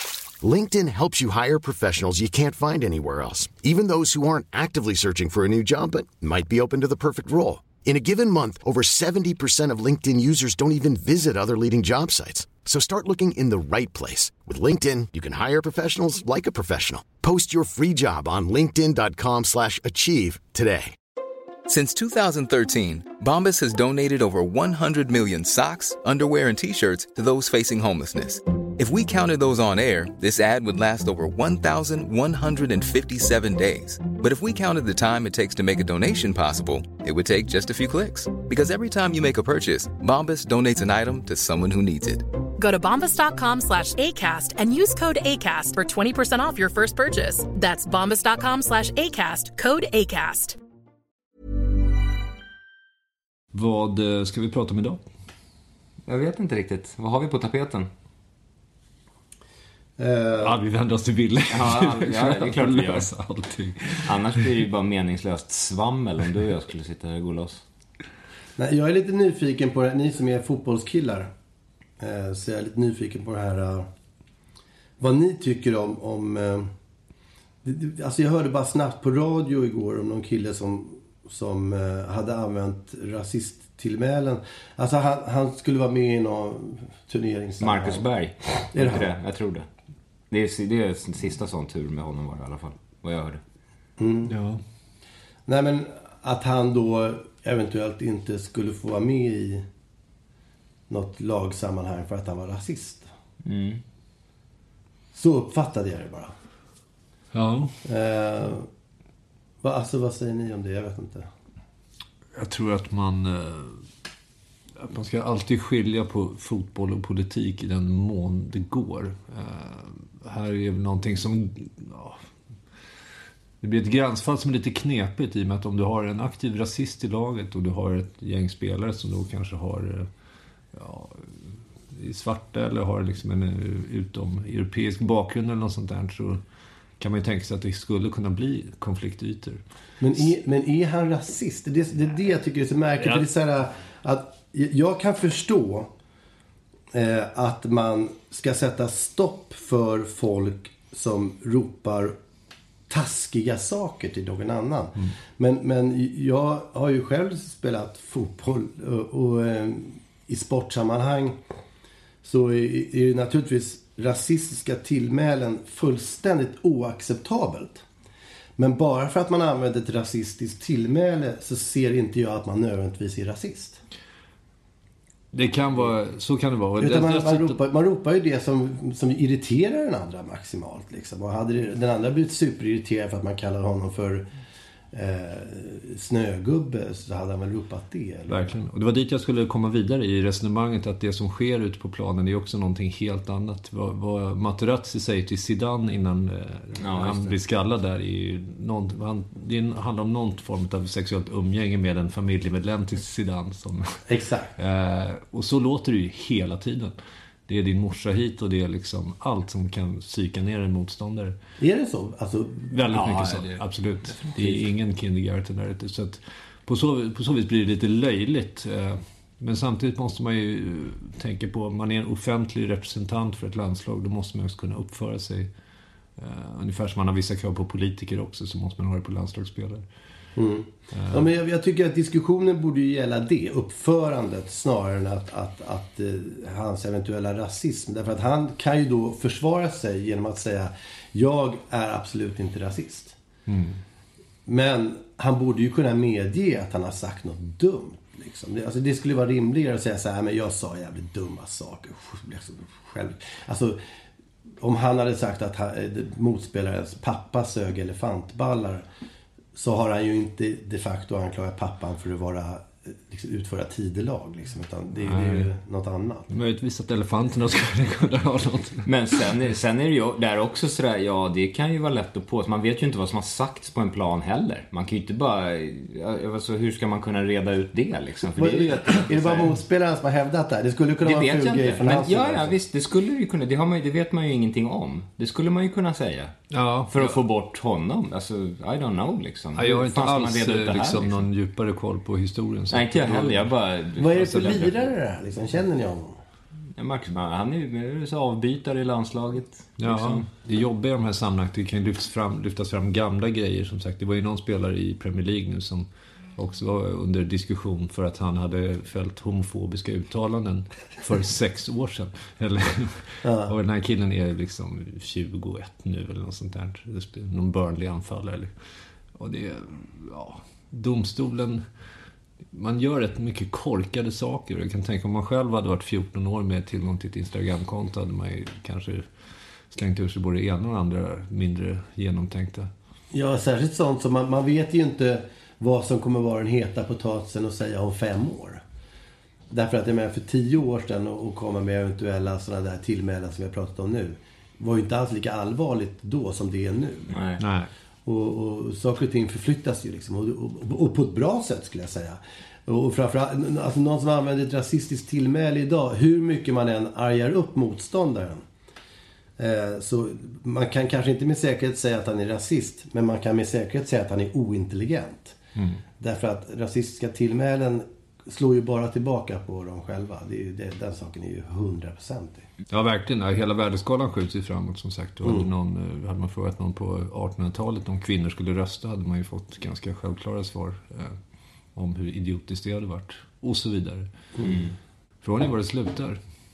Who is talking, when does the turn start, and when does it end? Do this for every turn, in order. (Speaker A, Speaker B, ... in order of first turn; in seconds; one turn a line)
Speaker A: 0.4-20.9
Speaker B: 21.7-42.2
Speaker C: 42.6-50.6
Speaker D: 53.5-55.0
Speaker E: 56.0-57.9
Speaker F: 60.0-60.6
Speaker D: 60.4-64.4
Speaker E: 61.5-63.1
Speaker E: 64.0-67.6
Speaker F: 68.6-71.3
Speaker F: 72.0-73.9
Speaker F: 75.0-76.7
Speaker F: 77.6-88.0
Speaker E: 87.6-89.7
Speaker F: 88.7-89.1
Speaker E: 90.3-93.4
Speaker F: 94.0-94.3
Speaker D: 94.3-94.6
Speaker F: 95.5-99.6
Speaker F: 100.9-103.1
Speaker E: 103.4-103.8
Speaker F: 105.1-106.3
Speaker D: 107.3-107.7
Speaker F: 107.8-108.7
Speaker F: 109.6-111.3
Speaker D: 112.3-113.8
Speaker D: 114.8-122.2
Speaker D: 123.6-130.1
Speaker D: 130.7-131.4
Speaker D: 131.9-136.4
Speaker D: 137.0-139.6
Speaker F: 140.0-145.9
Speaker D: 143.0-143.2
Speaker F: 146.9-152.2
Speaker F: 152.9-161.4
Speaker F: 162.2-167.8
Speaker F: 168.6-173.8
Speaker D: 175.3-177.6
Speaker F: 176.8-184.3
Speaker F: 184.9-188.5
Speaker D: 188.3-204.0
Speaker E: 196.8-197.3
Speaker F: 204.1-204.5
Speaker D: 204.6-206.9
Speaker D: 207.5-211.3
Speaker F: 211.6-213.0
Speaker D: 212.7-225.5
Speaker E: 212.9-214.7
Speaker D: 226.2-229.8
Speaker F: 230.3-243.2
Speaker D: 230.9-231.3
Speaker D: 243.5-243.8
Speaker F: 244.5-253.8
Speaker F: 254.6-258.8
Speaker F: 259.5-266.3
Speaker D: 265.0-265.5
Speaker D: 266.3-268.8
Speaker E: 268.8-279.5
Speaker F: 278.3-282.6
Speaker E: 281.0-286.4
Speaker D: 286.5-287.1
Speaker E: 286.9-291.2
Speaker D: 289.5-293.5
Speaker E: 292.7-294.9
Speaker F: 294.0-296.2
Speaker E: 296.7-300.3
Speaker D: 299.8-318.5
Speaker F: 313.2-313.5
Speaker D: 319.1-321.6
Speaker D: 322.5-329.0
Speaker D: 329.7-332.7
Speaker F: 333.1-338.6
Speaker F: 339.5-347.2
Speaker E: 347.1-347.4
Speaker D: 347.4-347.7
Speaker F: 348.0-358.4
Speaker F: 359.4-365.4
Speaker F: 366.0-372.4
Speaker D: 372.7-381.2
Speaker F: 375.2-375.5
Speaker D: 381.7-384.1
Speaker E: 384.4-384.7
Speaker D: 385.2-386.2